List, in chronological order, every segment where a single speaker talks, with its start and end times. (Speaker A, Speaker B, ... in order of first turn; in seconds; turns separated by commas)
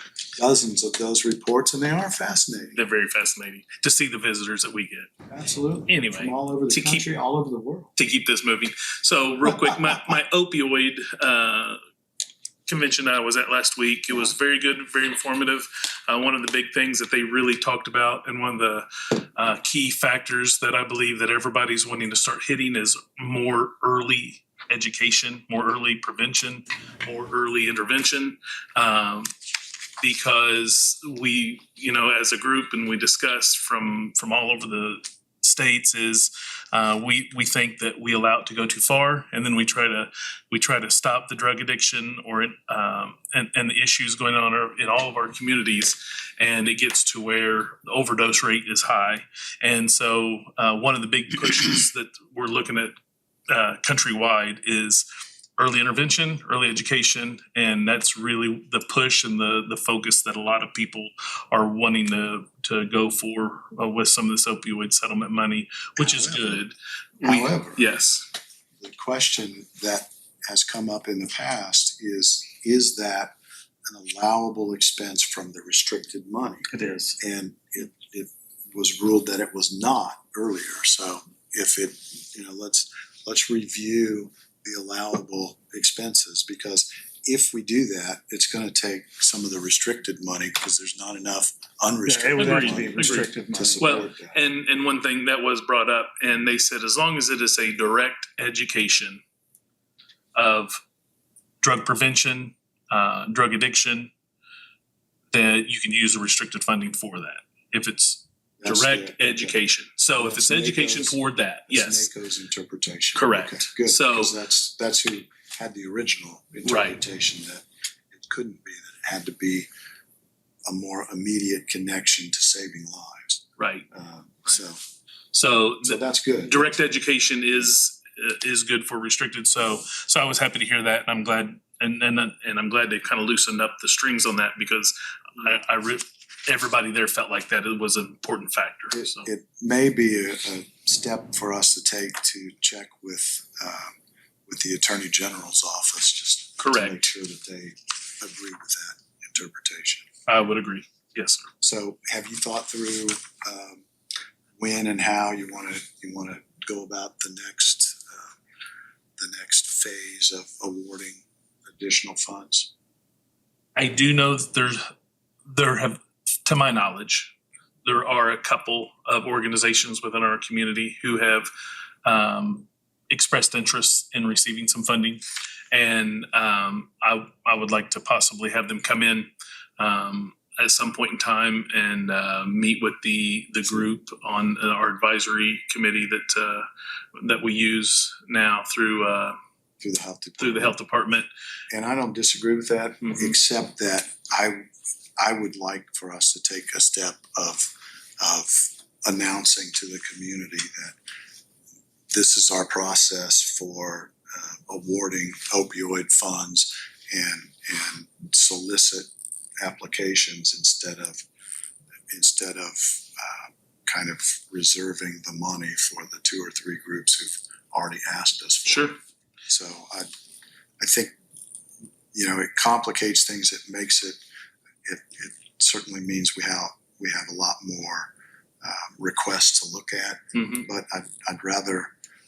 Speaker A: 0.4-2.8, Speaker B: 2.8-5.1, Speaker A: 5.3-7.9, Speaker B: 5.9-7.1, Speaker B: 8.0-11.8, Speaker A: 9.5-10.1, Speaker B: 12.7-29.3, Speaker A: 14.1-14.3, Speaker B: 30.0-53.0, Speaker B: 53.5-66.8, Speaker A: 66.0-66.6, Speaker A: 67.2-67.8, Speaker B: 67.3-68.3, Speaker A: 68.8-73.3, Speaker A: 73.9-76.7, Speaker C: 76.7-77.2, Speaker A: 77.2-94.4, Speaker C: 92.1-94.0, Speaker B: 92.4-93.3, Speaker B: 93.8-99.2, Speaker B: 100.3-100.8, Speaker B: 101.6-104.1, Speaker B: 105.3-112.1, Speaker A: 108.6-109.6, Speaker A: 110.2-119.7, Speaker B: 113.2-114.4, Speaker B: 116.7-117.0, Speaker A: 120.7-124.8, Speaker B: 123.6-123.9, Speaker B: 125.3-139.3, Speaker A: 125.8-126.8, Speaker A: 138.9-150.1, Speaker B: 146.6-147.0, Speaker B: 150.3-151.5, Speaker A: 151.6-153.8, Speaker A: 154.6-158.4, Speaker A: 159.2-162.7, Speaker B: 163.8-164.9, Speaker B: 165.4-171.5, Speaker B: 172.1-189.4, Speaker A: 189.8-190.8, Speaker B: 190.4-191.3, Speaker A: 191.7-194.7, Speaker B: 193.1-193.3, Speaker A: 195.2-201.0, Speaker A: 202.1-209.1, Speaker A: 209.6-211.2, Speaker A: 212.1-219.0, Speaker B: 218.7-219.0, Speaker A: 219.5-220.1, Speaker A: 220.8-221.1, Speaker A: 222.1-224.2, Speaker A: 224.8-231.9, Speaker B: 230.3-230.7